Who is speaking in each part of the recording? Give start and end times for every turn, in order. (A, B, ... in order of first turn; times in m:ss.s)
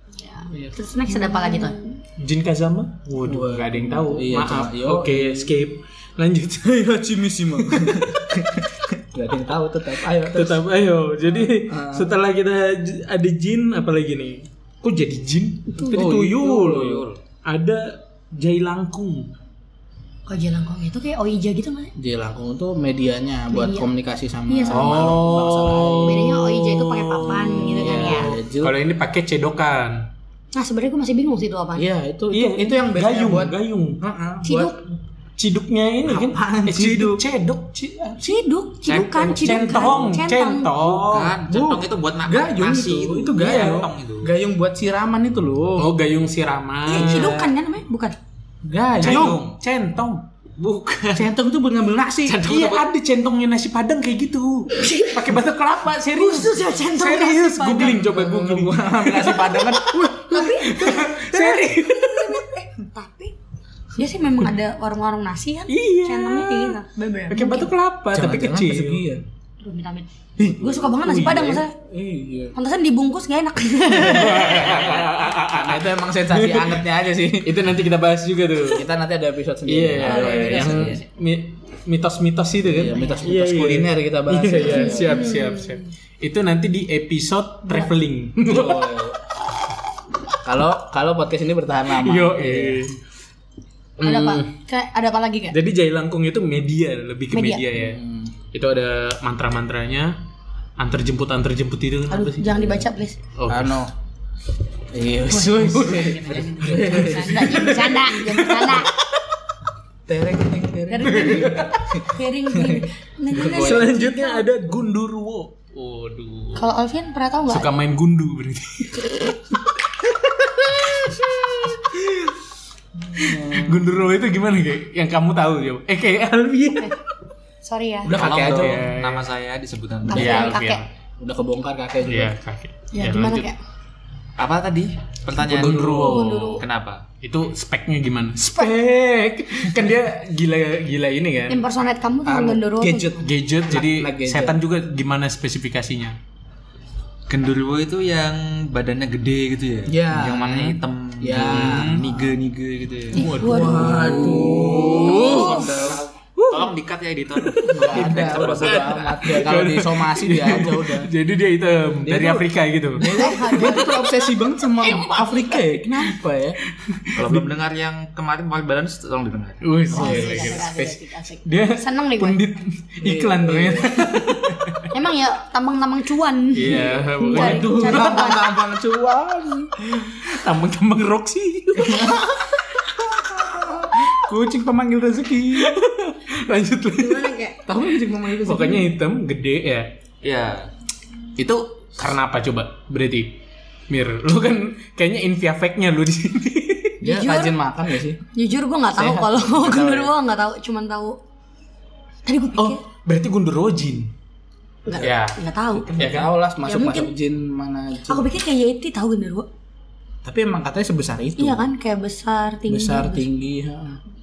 0:00.2-0:02.0 A
0:02.2-0:06.8 B
0:03.2-0:05.5 C
0:06.6-0:10.6 C
0:07.6-0:08.3 B
0:10.2-0:19.3 B
0:11.3-0:12.2 C
0:15.7-0:16.0 A
0:15.9-0:17.1 C
0:16.0-0:17.2 D
0:20.3-0:21.9 A
0:22.0-0:26.4 C
0:23.5-0:23.9 A
0:24.5-0:25.0 A
0:24.7-0:30.1 B
0:26.0-0:28.3 A
0:27.3-0:28.8 C
0:30.5-0:31.9 A
0:31.8-0:34.8 C
0:32.3-0:34.0 B
0:34.4-0:34.8 A
0:35.4-0:38.3 B
0:36.0-0:37.2 C
0:38.2-0:40.7 A
0:38.8-0:39.8 D
0:39.2-0:41.4 B
0:40.7-0:44.3 D
0:41.4-0:45.9 C
0:43.3-0:43.9 B
0:45.8-0:47.4 B
0:46.9-0:48.2 A
0:46.9-0:47.5 C
0:48.6-0:49.4 C
0:49.0-0:49.6 D
0:49.0-0:50.2 B
0:50.6-0:51.2 D
0:51.1-0:52.4 C
0:52.2-1:02.5 B
0:52.3-0:52.8 D
0:54.8-0:55.2 A
0:56.2-0:58.0 A
0:58.0-1:00.7 C
1:00.3-1:03.3 A
1:01.4-1:01.6 C
1:03.9-1:07.7 A
1:05.7-1:09.0 B
1:08.1-1:09.2 C
1:09.6-1:11.7 A
1:10.4-1:10.8 C
1:10.8-1:11.6 B
1:11.8-1:12.5 C
1:12.5-1:14.8 A
1:13.9-1:18.8 B
1:14.3-1:17.6 C
1:18.7-1:21.0 C
1:19.7-1:28.9 B
1:20.1-1:21.0 A
1:22.6-1:25.3 C
1:22.9-1:23.2 A
1:24.6-1:25.8 A
1:28.4-1:29.2 C
1:30.4-1:32.9 C
1:32.0-1:33.0 B
1:34.0-1:34.5 B
1:34.0-1:35.6 A
1:35.5-1:38.0 B
1:37.3-1:37.6 A
1:37.7-1:38.3 C
1:38.5-1:40.2 B
1:40.8-1:42.8 B
1:42.1-1:43.2 A
1:43.3-1:43.8 B
1:43.5-1:43.9 C
1:44.9-1:47.8 C
1:45.4-1:48.9 B
1:45.9-1:48.9 A
1:50.1-1:54.0 C
1:50.9-1:54.4 A
1:51.0-1:51.8 B
1:53.4-1:56.7 B
1:56.6-1:57.7 A
1:57.5-1:59.4 B
2:00.5-2:02.3 B
2:03.1-2:03.9 C
2:03.2-2:07.0 B
2:07.6-2:08.1 A
2:08.0-2:08.9 C
2:08.1-2:10.6 D
2:08.2-2:09.3 B
2:10.1-2:10.8 A
2:10.1-2:10.9 B
2:11.2-2:12.3 C
2:12.1-2:13.5 B
2:12.9-2:13.6 A
2:14.4-2:17.0 D
2:15.4-2:16.6 B
2:15.4-2:16.2 C
2:16.0-2:16.6 A
2:17.2-2:21.6 B
2:18.4-2:18.7 A
2:21.5-2:23.2 A
2:22.2-2:24.6 C
2:23.2-2:26.2 B
2:27.3-2:33.3 D
2:29.9-2:32.3 C
2:31.5-2:31.9 B
2:33.1-2:35.9 A
2:33.1-2:36.7 B
2:33.4-2:36.1 C
2:35.3-2:39.4 D
2:37.4-2:44.2 B
2:37.7-2:41.1 C
2:42.0-2:46.6 C
2:43.0-2:44.0 A
2:46.8-2:47.5 B
2:47.1-2:49.6 D
2:49.6-2:54.9 B
2:49.9-2:52.4 A
2:49.9-2:50.6 C
2:53.0-2:54.5 C
2:54.9-2:58.4 A
2:56.5-2:58.4 B
2:56.6-2:59.7 C
2:59.9-3:02.2 B
3:01.8-3:05.7 C
3:05.5-3:07.4 B
3:07.0-3:07.6 A
3:07.6-3:08.9 C
3:08.4-3:09.9 B
3:10.2-3:10.7 D
3:11.4-3:13.4 B
3:13.9-3:17.0 B
3:17.0-3:17.6 A
3:17.0-3:18.2 C
3:18.3-3:21.2 A
3:18.9-3:20.1 C
3:22.2-3:22.8 A
3:22.6-3:24.1 B
3:24.8-3:26.1 A
3:25.0-3:26.3 B
3:25.8-3:28.3 C
3:26.6-3:27.1 A
3:28.1-3:29.5 A
3:30.2-3:31.6 C
3:31.4-3:33.2 A
3:32.7-3:34.0 C